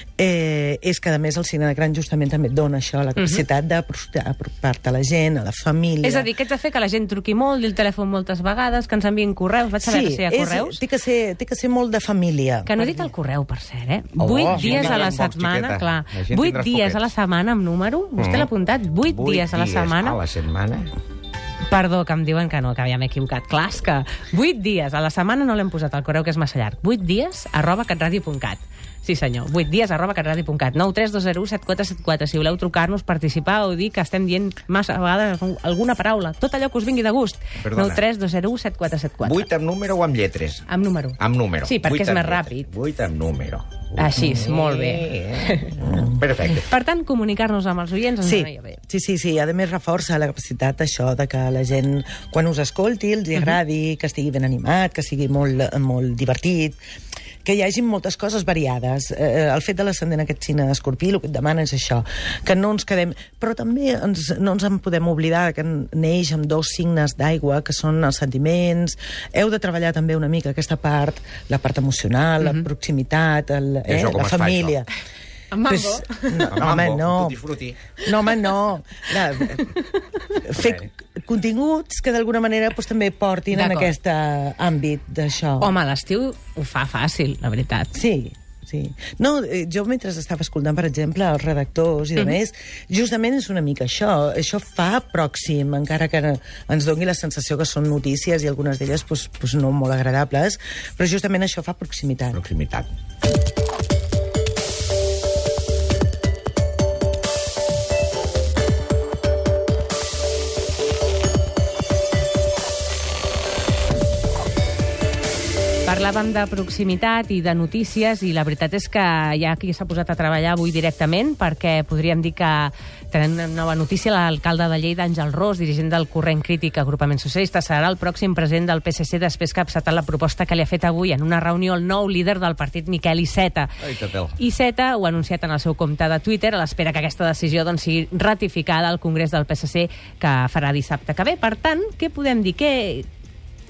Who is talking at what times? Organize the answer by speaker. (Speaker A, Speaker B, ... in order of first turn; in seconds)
Speaker A: 0.2-6.3, 9.8-13.1, 14.3-15.1, 45.8-46.2, 48.2-56.8, 57.4-74.9, 75.6-77.4, 78.0-79.7, 80.4-85.7, 87.9-102.4
Speaker B: 3.1-3.4, 6.0-10.8, 12.7-20.2, 21.7-39.5, 40.7-42.7, 44.0-45.8, 46.5-48.8, 75.5-76.5, 83.5-83.9, 85.6-87.9, 115.8-133.7, 134.3-143.1
Speaker C: 14.2-17.1, 18.2-18.5, 19.0-20.9, 37.6-38.0, 39.2-40.6, 41.2-46.7, 73.9-74.8, 76.5-77.8, 80.5-80.8, 102.3-102.9, 133.8-134.3